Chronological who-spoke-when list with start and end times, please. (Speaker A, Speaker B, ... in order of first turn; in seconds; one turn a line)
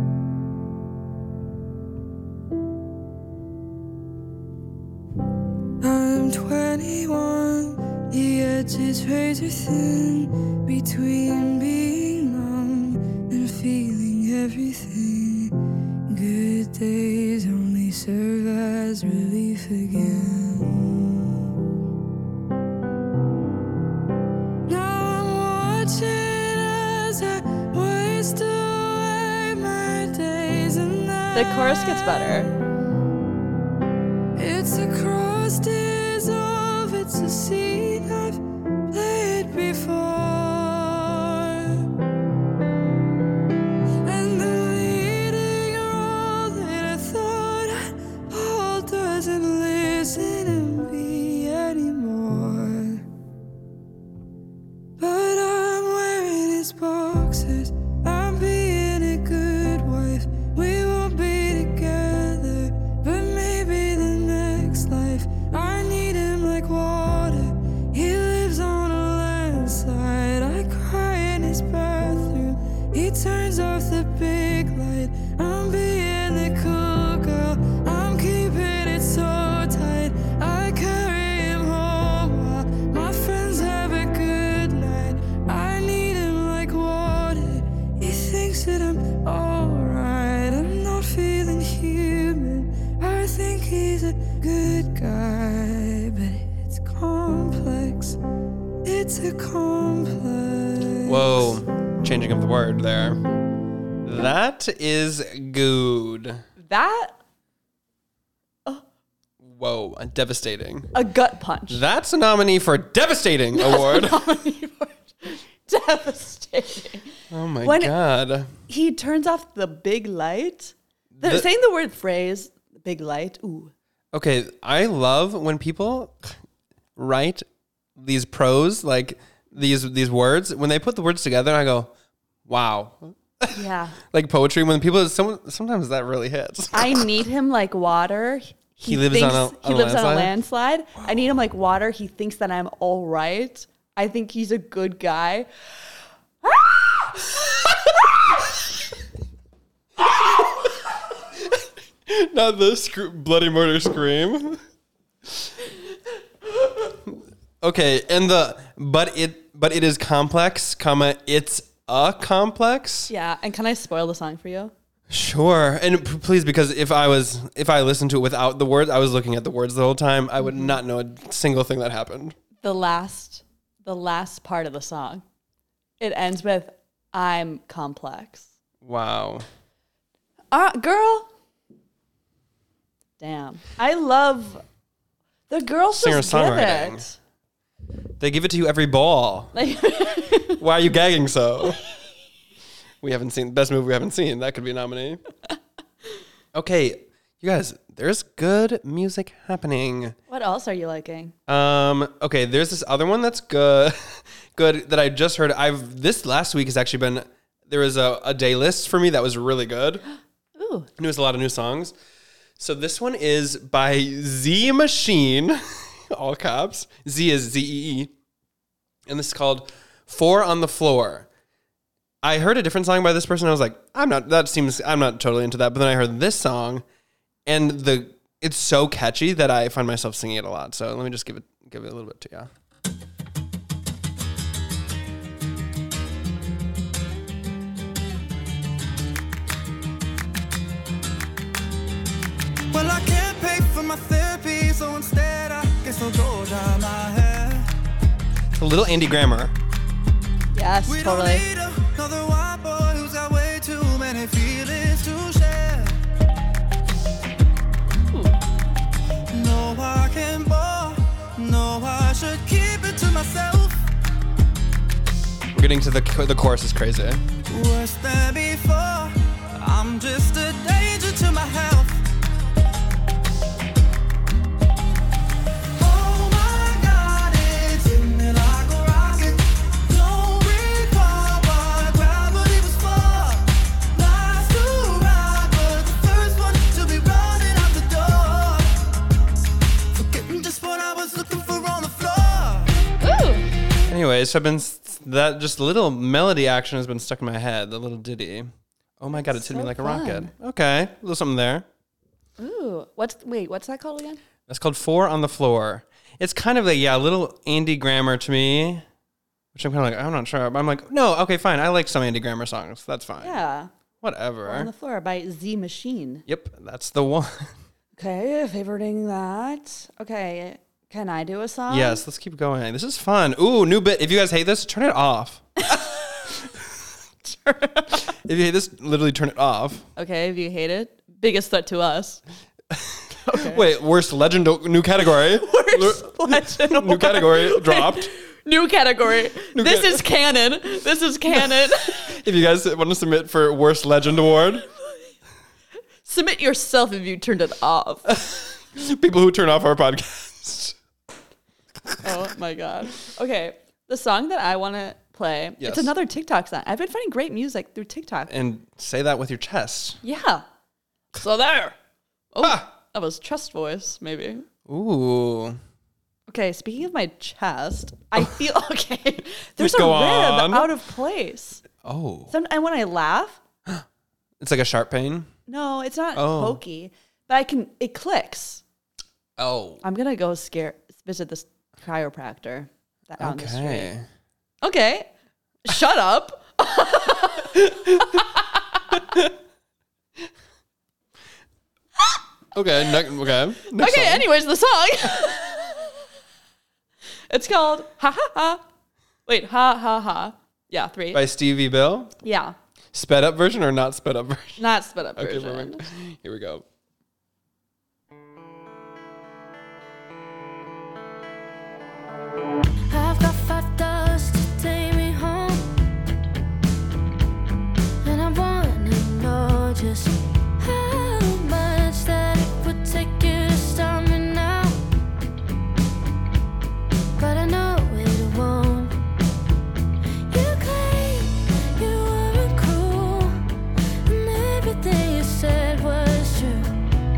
Speaker A: 5.8-15.5
Speaker A: 16.1-21.4
Speaker A: 24.7-32.5
Speaker B: 31.3-32.5
Speaker A: 34.4-38.4
Speaker A: 38.9-41.9
Speaker A: 44.0-53.0
Speaker A: 55.0-98.2
Speaker A: 98.8-101.6
Speaker C: 101.0-103.2
Speaker C: 104.0-106.4
Speaker B: 106.6-107.2
Speaker C: 109.4-110.9
Speaker B: 110.9-111.8
Speaker C: 111.7-114.2
Speaker B: 113.5-117.0
Speaker C: 117.3-118.5
Speaker B: 117.6-117.9
Speaker B: 118.7-123.7
Speaker C: 121.2-121.5
Speaker C: 124.1-126.3
Speaker C: 127.0-127.4
Speaker C: 128.0-131.9
Speaker C: 132.4-137.1
Speaker B: 133.5-134.0
Speaker B: 136.7-145.5
Speaker C: 138.8-140.3
Speaker B: 146.4-146.8
Speaker C: 150.0-150.2
Speaker C: 151.5-154.6
Speaker C: 157.1-163.1
Speaker B: 163.1-164.7
Speaker C: 165.1-172.3
Speaker B: 170.5-170.7
Speaker B: 172.6-175.2
Speaker B: 176.0-178.5
Speaker C: 178.8-179.4
Speaker B: 180.5-181.3
Speaker B: 183.2-184.6
Speaker B: 185.5-187.2
Speaker C: 185.9-187.1
Speaker C: 188.2-189.5
Speaker B: 189.5-190.6
Speaker C: 190.6-191.8
Speaker C: 193.0-195.2
Speaker C: 196.5-200.2
Speaker B: 200.3-201.3
Speaker C: 201.5-210.0
Speaker B: 210.6-210.9
Speaker C: 211.0-211.9
Speaker C: 212.6-218.1
Speaker C: 219.1-221.3
Speaker C: 222.2-226.8
Speaker C: 227.4-232.5
Speaker D: 242.7-247.7
Speaker C: 248.5-249.5
Speaker B: 250.5-251.4
Speaker D: 250.9-256.0
Speaker B: 258.1-258.4
Speaker D: 259.3-263.8
Speaker C: 265.5-267.2
Speaker D: 267.5-272.0
Speaker D: 275.8-288.7
Speaker D: 289.9-292.9
Speaker B: 293.0-293.4
Speaker C: 293.9-301.6
Speaker B: 299.1-300.3
Speaker B: 302.4-304.2
Speaker C: 304.5-308.8
Speaker C: 309.5-313.4
Speaker B: 313.2-313.7
Speaker C: 314.0-314.7
Speaker B: 314.4-316.2
Speaker C: 316.3-317.5
Speaker B: 318.0-322.0
Speaker C: 321.7-325.8
Speaker B: 325.6-326.0
Speaker B: 327.2-328.1
Speaker C: 328.1-329.9
Speaker B: 329.9-332.2
Speaker C: 332.7-338.1
Speaker B: 333.1-333.7
Speaker B: 335.2-342.1
Speaker C: 339.5-340.0
Speaker C: 341.3-344.6
Speaker B: 346.0-348.1
Speaker C: 348.1-350.8
Speaker B: 352.0-358.3
Speaker C: 355.6-355.9
Speaker C: 358.3-360.0
Speaker B: 360.0-360.4
Speaker B: 361.1-361.8
Speaker B: 362.3-364.4
Speaker C: 362.4-362.7
Speaker C: 364.7-365.6
Speaker B: 366.3-371.6
Speaker C: 369.6-370.7
Speaker C: 371.8-372.3
Speaker B: 372.3-373.4
Speaker C: 374.4-375.3
Speaker B: 375.5-378.6
Speaker C: 376.1-376.6
Speaker C: 379.4-379.8
Speaker B: 379.8-383.9
Speaker C: 383.2-384.1
Speaker B: 384.6-385.1
Speaker B: 385.6-388.4
Speaker C: 392.5-394.3
Speaker B: 393.7-395.9
Speaker B: 397.3-398.6
Speaker B: 399.3-401.2
Speaker C: 401.1-402.1
Speaker B: 402.2-402.5
Speaker C: 402.9-404.6
Speaker B: 404.6-405.8
Speaker C: 405.2-406.6
Speaker E: 412.9-415.8
Speaker E: 418.0-424.8
Speaker E: 427.2-429.0
Speaker E: 430.3-433.4
Speaker E: 434.0-436.8